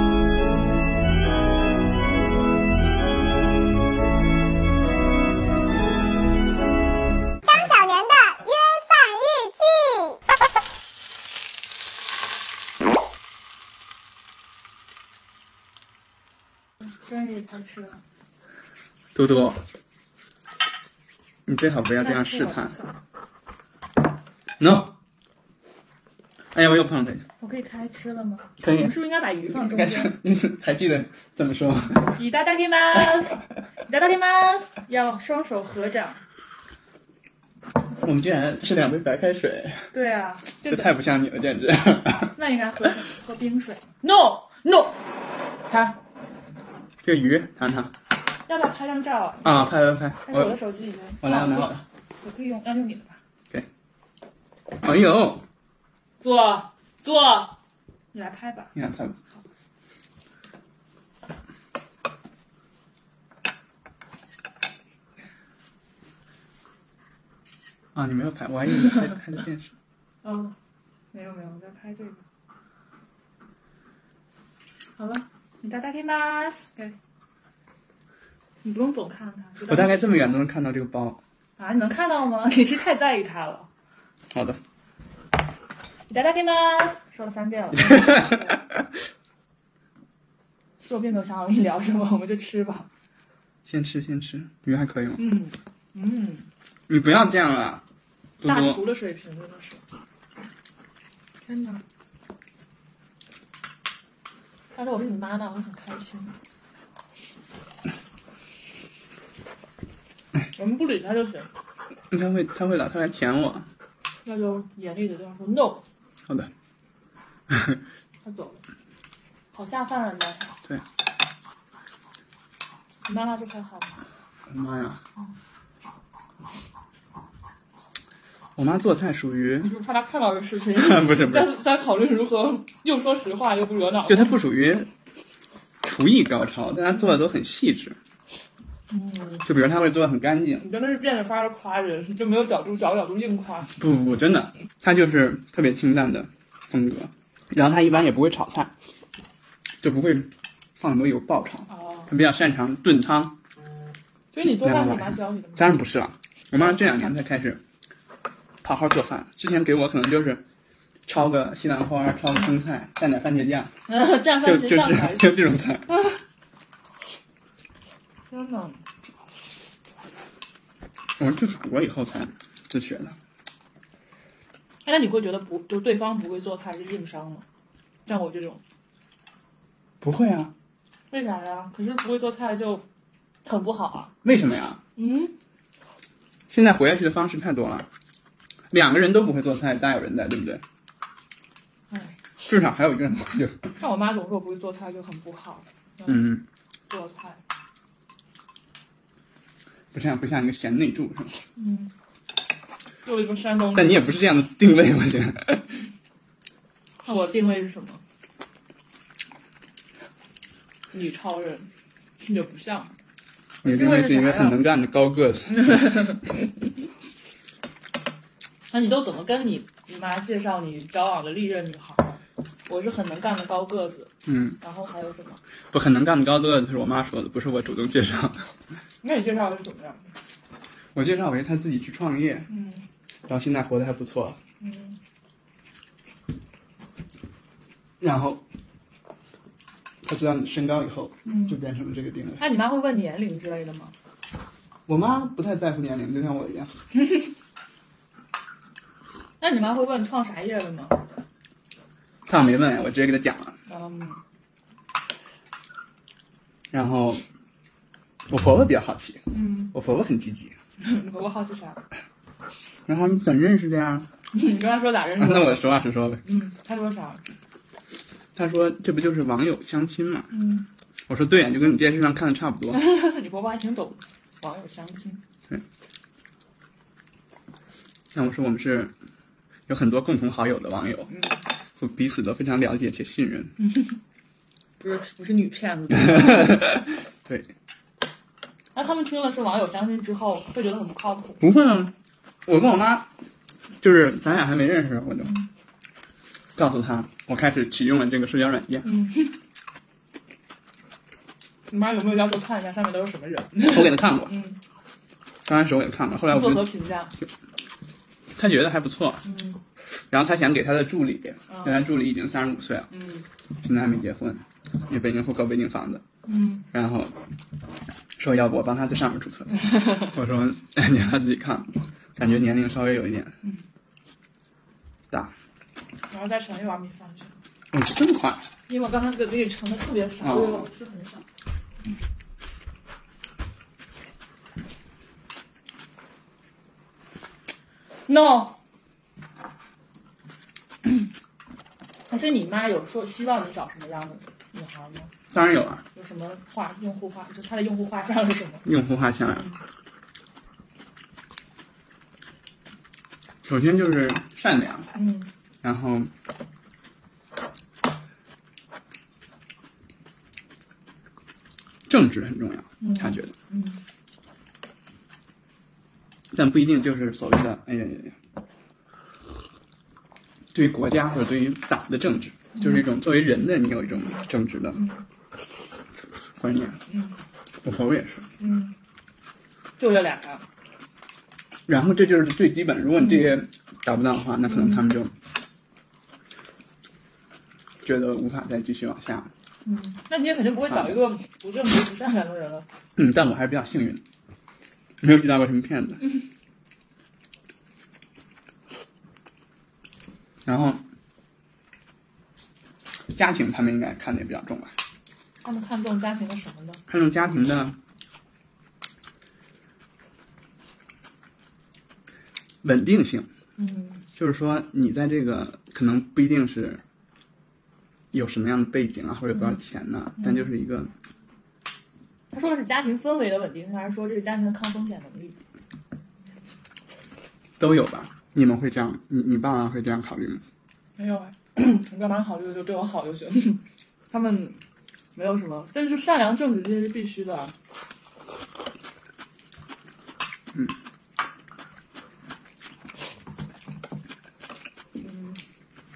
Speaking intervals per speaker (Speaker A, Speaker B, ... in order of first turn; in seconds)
Speaker A: 7.4-10.2
Speaker B: 16.8-18.0, 22.0-23.0, 27.4-30.1, 32.1-36.2, 39.9-40.9, 42.3-45.0, 45.6-46.0, 48.5-53.2, 56.2-57.6, 58.1-58.8, 70.2-70.5, 71.1-72.2, 75.0-77.0, 78.6-80.4, 81.6-83.7, 86.1-88.6, 90.8-92.9, 95.2-96.5, 98.4-99.8, 101.5-101.8, 104.8-106.3, 110.6-111.5, 114.3-115.8, 118.2-118.6, 119.5-120.6, 123.1-124.0, 129.6-134.4, 138.9-139.5, 140.6-143.7, 151.7-152.1, 154.3-155.8, 156.6-156.9, 163.9-166.2, 168.3-168.8, 174.9-177.4, 178.1-178.6, 181.1-182.8, 183.4-184.1, 185.0-185.3, 191.9-192.2, 193.8-196.3, 196.9-197.4, 201.6-201.9, 203.1-204.1, 207.0-208.0, 210.9-211.7, 212.2-212.9, 213.6-214.6, 215.6-216.2, 218.7-225.4, 229.0-230.1, 232.5-232.8, 234.6-235.0, 241.3-241.6, 242.4-243.9, 246.9-247.3, 249.4-251.0, 253.7-254.2, 259.3-259.7, 260.8-261.8, 264.3-265.6, 266.2-267.2, 270.3-270.7, 272.7-275.2, 281.1-281.4, 283.6-284.0, 284.8-286.6, 288.8-291.4, 298.8-299.4, 301.7-304.6, 306.3-307.1, 309.2-309.6, 311.5-311.9, 312.9-313.3, 316.3-316.7, 319.6-320.1, 326.1-327.4, 328.7-331.2, 338.1-338.6, 342.1-345.1, 345.9-348.7, 354.9-355.3, 362.8-363.8, 372.6-372.8, 374.8-375.0, 376.9-377.2, 378.4-378.7, 379.8-380.4, 384.5-384.9, 389.6-392.6, 405.4-406.8, 413.6-414.0, 420.2-420.5, 422.3-425.4, 431.0-434.6, 435.2-437.5, 445.0-445.4
Speaker C: 19.1-19.6, 21.5-22.8, 24.6-24.9, 26.5-27.3, 28.6-28.9, 29.5-32.2, 38.0-39.9, 40.6-42.4, 47.0-47.9, 49.4-50.6, 51.2-51.8, 54.8-55.4, 58.8-59.2, 68.0-69.7, 79.7-81.2, 84.3-84.6, 87.7-88.8, 93.7-95.2, 96.9-97.8, 98.4-98.9, 112.1-113.7, 117.5-117.8, 124.5-125.0, 128.6-129.7, 130.7-131.6, 134.1-134.9, 135.8-138.0, 139.4-140.7, 143.8-148.7, 149.8-153.3, 154.4-157.6, 158.6-160.4, 161.1-163.7, 164.4-165.9, 171.2-173.2, 180.0-180.5, 184.2-184.8, 186.5-187.9, 188.7-190.6, 192.4-193.8, 196.1-196.4, 199.9-201.4, 203.8-205.7, 213.6-216.1, 224.3-224.6, 225.7-228.5, 230.9-232.5, 233.3-234.4, 238.0-238.4, 240.0-242.4, 244.9-246.7, 252.3-253.6, 256.7-257.2, 258.3-260.6, 262.9-264.1, 265.2-266.2, 268.4-270.3, 271.1-272.8, 278.1-278.9, 279.7-281.1, 281.8-283.6, 285.9-287.5, 291.4-291.9, 292.5-293.1, 293.8-295.4, 296.6-298.9, 303.6-304.3, 305.4-306.7, 308.4-309.2, 310.1-312.9, 313.6-316.0, 316.7-317.1, 318.2-323.4, 327.7-328.4, 330.2-330.7, 345.3-345.8, 348.6-349.5, 353.4-354.9, 355.6-356.1, 361.9-363.3, 366.3-368.2, 370.5-374.9, 376.4-376.8, 377.6-378.3, 381.7-385.1, 387.8-389.3, 390.7-391.0, 393.0-394.0, 395.0-396.1, 400.4-400.8, 403.1-404.7, 406.9-407.8, 412.6-413.3, 414.2-416.8, 418.1-420.9, 427.6-430.4